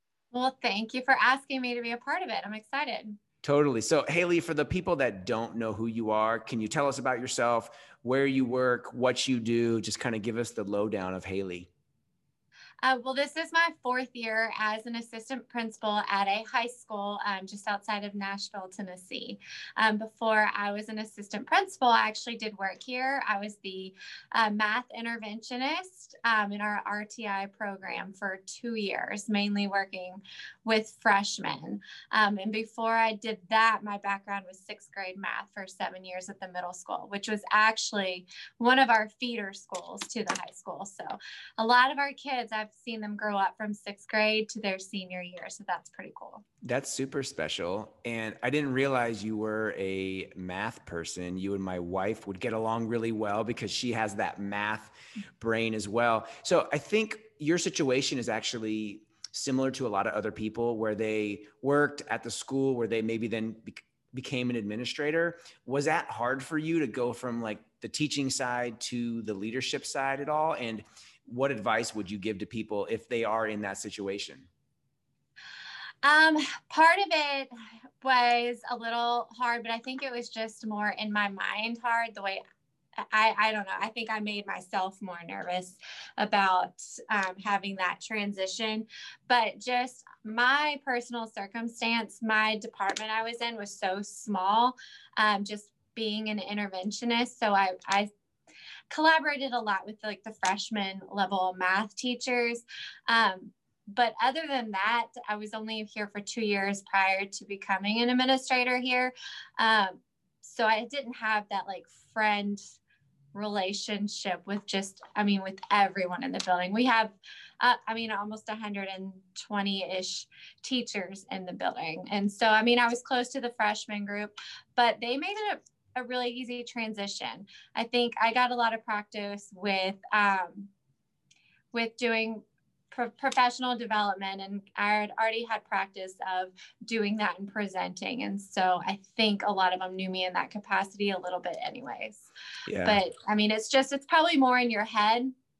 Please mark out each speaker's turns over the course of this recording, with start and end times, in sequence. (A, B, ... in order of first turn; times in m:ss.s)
0:00.3-0:03.2 A
0:03.4-0:11.7 B
0:12.8-0:46.4 A
0:46.6-1:14.5 B
1:16.0-1:22.4 A
1:23.1-1:38.1 A
1:38.9-1:52.6 A
1:53.3-2:10.7 A
2:11.7-2:22.3 A
2:22.6-2:23.0 B
2:22.8-2:25.3 A